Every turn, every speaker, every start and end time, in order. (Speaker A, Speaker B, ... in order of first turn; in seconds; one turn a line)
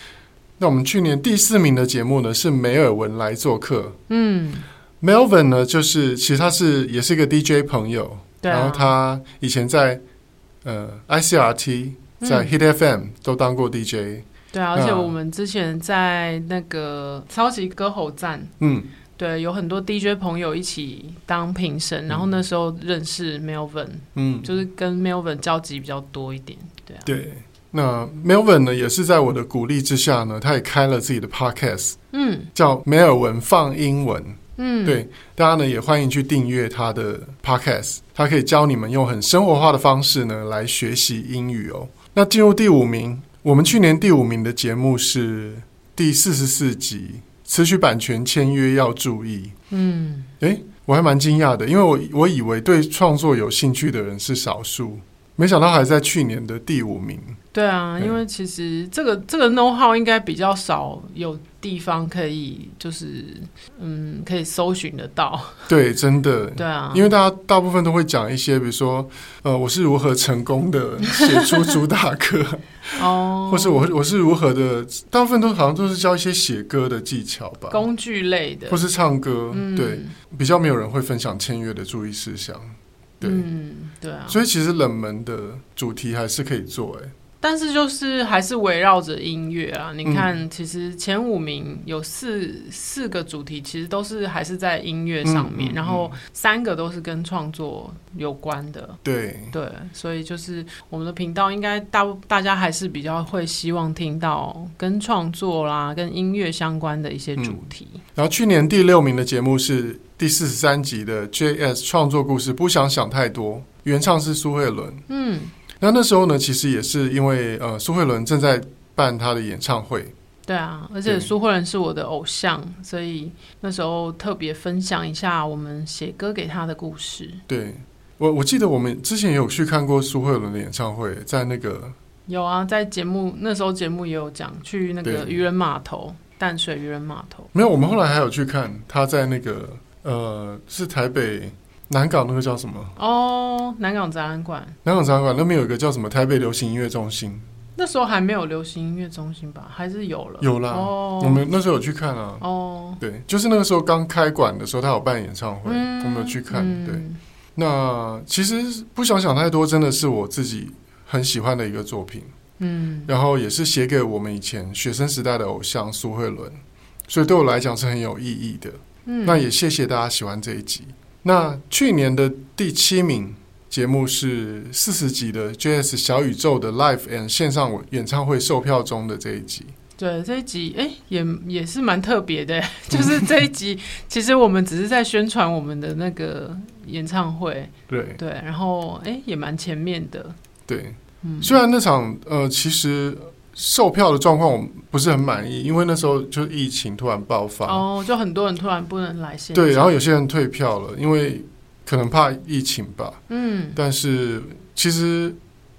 Speaker A: 0.6-4.0
Speaker B: 4.1-4.6
Speaker A: 5.0-10.0
Speaker B: 8.4-8.9
Speaker A: 10.6-15.1
Speaker B: 12.2-12.5
Speaker B: 14.5-18.5
Speaker A: 18.6-18.9
Speaker B: 19.1-27.1
Speaker A: 24.1-24.5
Speaker A: 27.0-32.0
Speaker B: 32.1-32.5
Speaker A: 32.5-49.5
Speaker B: 34.6-35.0
Speaker B: 49.7-50.3
Speaker A: 50.4-57.4
Speaker B: 57.5-65.7
Speaker A: 65.7-77.8
Speaker B: 66.6-67.1
Speaker B: 71.0-71.7
Speaker B: 73.0-73.9
Speaker B: 77.7-78.8
Speaker A: 78.7-83.5
Speaker B: 79.5-80.1
Speaker B: 83.2-84.4
Speaker A: 84.3-87.1
Speaker B: 87.4-99.0
Speaker A: 90.0-90.3
Speaker A: 95.2-96.1
Speaker A: 99.0-99.5
Speaker B: 99.5-108.0
Speaker A: 108.1-115.0
Speaker B: 115.1-115.5
Speaker A: 115.8-120.1
Speaker B: 120.5-127.4
Speaker A: 127.5-131.9
Speaker B: 132.3-137.5
Speaker A: 135.0-135.4
Speaker A: 137.5-142.9
Speaker B: 142.9-144.8
Speaker A: 144.8-147.4
Speaker B: 147.8-151.4
Speaker A: 150.4-152.4
Speaker B: 152.4-153.0
Speaker A: 153.0-157.0
Speaker B: 155.7-157.2
Speaker A: 157.6-162.3
Speaker B: 162.6-163.1
Speaker A: 163.1-179.7
Speaker B: 169.1-169.4
Speaker B: 180.0-190.3
Speaker A: 182.9-183.3
Speaker A: 187.9-188.2
Speaker A: 190.7-197.8
Speaker B: 191.2-191.5
Speaker B: 197.6-199.9
Speaker A: 199.5-203.2
Speaker B: 203.3-203.8
Speaker A: 203.7-205.4